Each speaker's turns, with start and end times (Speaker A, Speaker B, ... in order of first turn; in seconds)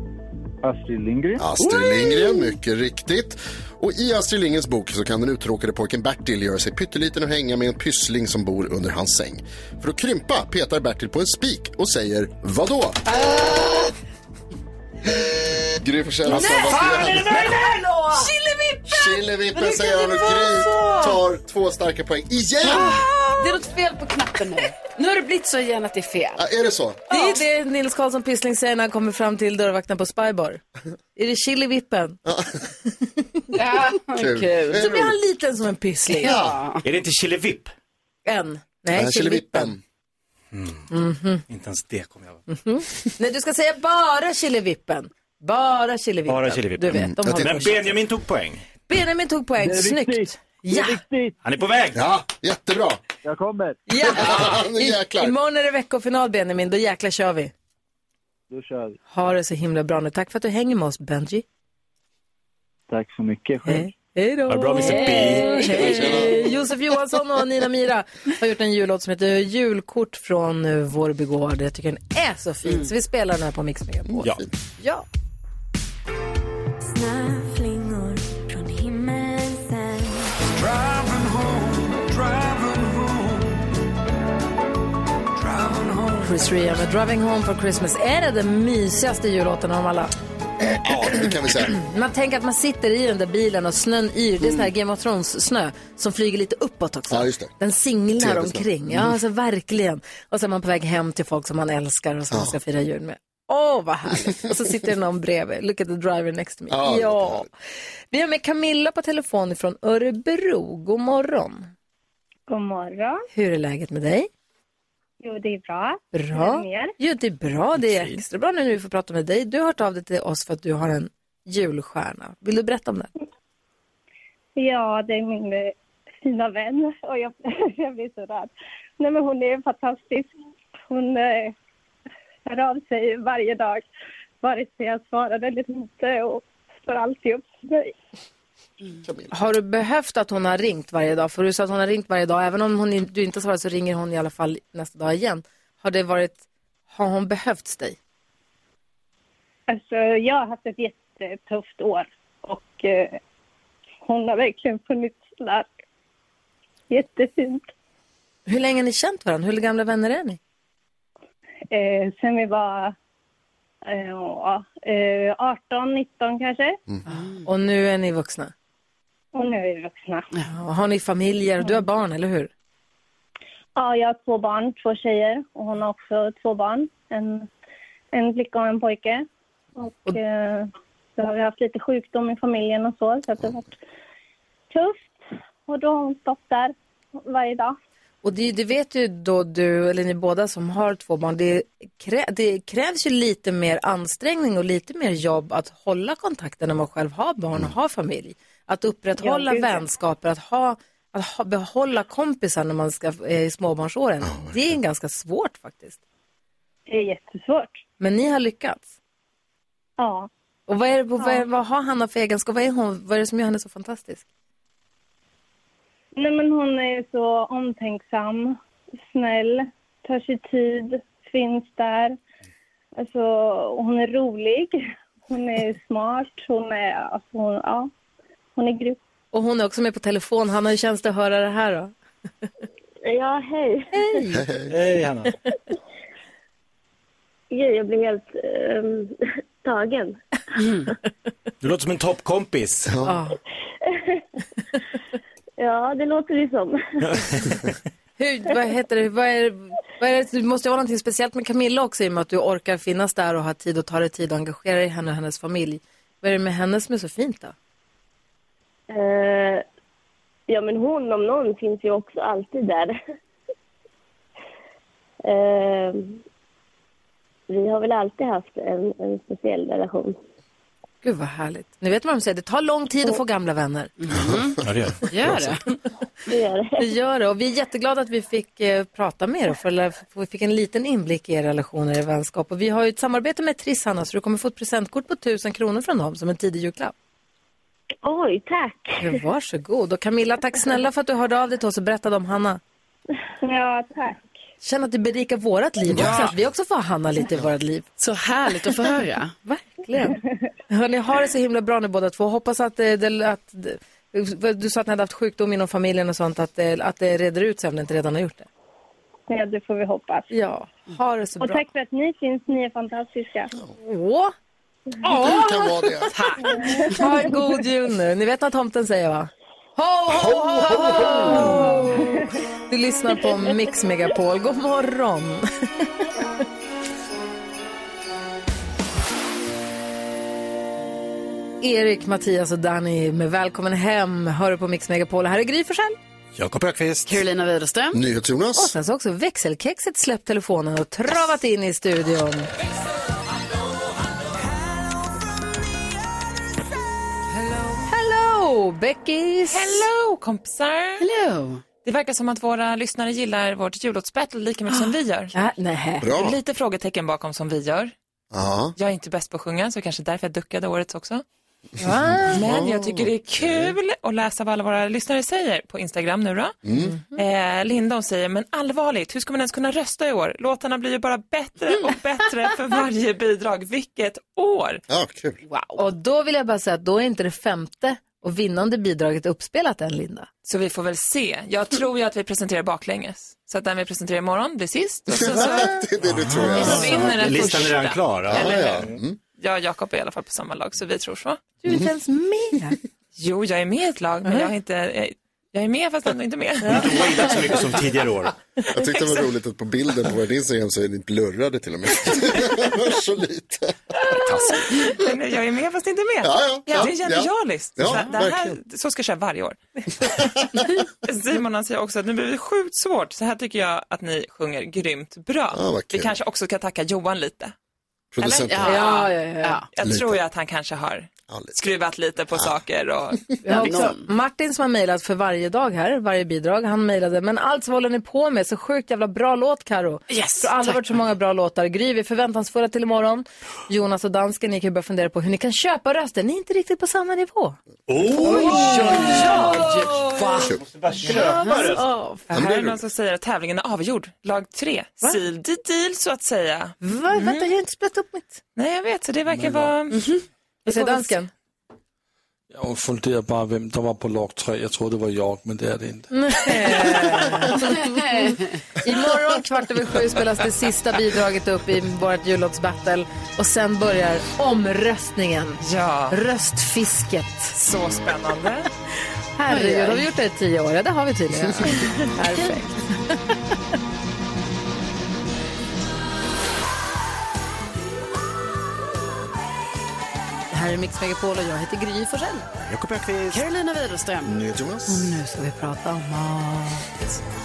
Speaker A: 0.6-1.4, 49.6-51.4, 53.2-53.9, 58.5-59.0, 62.9-63.9
Speaker B: 1.4-13.0, 15.8-17.5, 18.9-23.0, 26.4-27.0, 32.3-32.6, 34.2-35.1, 36.2-36.6, 38.9-39.8, 46.9-47.7, 51.9-53.0, 54.1-55.4, 65.8-66.4, 74.1-74.5, 90.8-91.8, 97.1-97.5, 98.2-99.1, 102.3-102.6, 106.7-107.5, 139.0-139.3, 204.2-204.7, 234.3-234.7, 242.9-243.2, 315.1-316.1, 320.1-321.3, 337.9-338.7, 356.0-356.4, 358.3-358.7, 362.1-363.7, 366.7-366.9, 374.9-375.4, 385.2-387.1, 388.3-389.2, 398.7-403.8, 406.2-408.6, 415.5-416.1, 418.1-418.8, 419.8-420.2, 421.3-421.5, 442.3-442.8, 484.2-485.1
Speaker C: 16.3-18.3, 19.6-21.2, 23.4-23.9, 27.1-30.6, 31.2-32.2, 34.8-36.4, 38.3-39.7, 40.9-41.4, 42.5-47.7, 48.9-51.0, 53.9-57.5, 59.1-61.5, 63.6-75.1, 86.2-90.1, 91.6-107.5, 108.1-111.7, 113.3-114.3, 116.1-123.1, 139.3-148.0, 158.5-160.4, 167.1-168.5, 170.5-172.5, 188.2-206.0, 208.0-208.9, 210.7-214.2, 229.3-231.9, 233.9-234.5, 243.0-243.3, 248.2-257.5, 271.0-273.9, 276.8-286.9, 289.0-292.6, 294.6-297.9, 299.4-308.5, 310.3-311.6, 313.8-314.3, 315.0-315.9, 316.9-325.5, 331.6-336.0, 338.6-342.5, 347.9-349.9, 354.7-356.1, 361.8-362.5, 366.8-367.2, 375.8-380.3, 386.6-387.0, 391.6-392.8, 396.6-397.6, 418.6-419.6, 423.4-437.6, 438.2-440.3, 441.0-442.3, 446.8-448.4, 450.7-451.3, 456.1-467.5, 469.4-473.2, 480.5-482.4, 484.9-486.8
Speaker D: 22.6-26.4, 27.1-27.4, 33.5-35.0, 36.2-36.8, 274.0-275.6, 295.9-296.3, 298.0-299.3, 337.1-338.0, 351.0-351.6, 375.5-375.8, 418.2-419.7, 423.5-424.0, 430.1-430.9, 438.3-440.5, 441.1-441.8, 449.9-450.2, 457.9-458.5, 469.5-470.1, 483.3-484.3
Speaker E: 36.8-37.7, 40.5-40.9, 41.5-42.4, 46.3-48.6, 51.4-52.0, 64.5-66.1, 234.7-235.3, 241.6-242.9, 247.1-247.3, 274.6-275.5, 336.4-337.0, 386.1-389.0, 396.7-398.4, 437.9-441.9, 482.7-483.4
Speaker F: 77.0-79.6
Speaker G: 80.5-83.8, 85.3-86.6
Speaker H: 112.5-113.2, 115.2-116.9, 124.6-131.6, 132.5-133.9, 134.4-137.9, 149.7-153.2, 154.1-155.7, 156.9-157.7, 161.7-162.9, 163.8-166.8, 169.3-170.3, 173.8-177.5, 178.1-179.2, 179.8-183.8, 184.7-185.1, 185.7-187.8, 199.2-199.8, 206.9-207.8, 210.0-210.3, 211.2-211.4, 216.2-222.2, 223.0-227.9, 228.6-229.0, 293.4-294.3, 309.3-310.3, 311.4-313.6, 316.4-317.4
Speaker I: 233.1-233.9, 237.5-240.2, 243.9-244.2, 245.6-247.0, 258.9-259.6, 260.5-263.0, 265.3-266.2, 267.5-270.2, 276.3-276.8, 288.0-289.1
Speaker J: 349.5-351.1, 351.9-355.3, 356.1-357.9, 358.8-361.2, 362.3-366.6, 367.1-374.8, 380.4-388.9, 389.4-391.4, 393.2-397.3, 398.8-399.3, 404.5-410.3, 411.1-417.5, 419.8-423.2, 442.3-447.5, 448.6-450.0, 450.7-451.1, 465.6-466.2, 467.5-468.7
Speaker K: 449.3-449.7, 452.5-456.6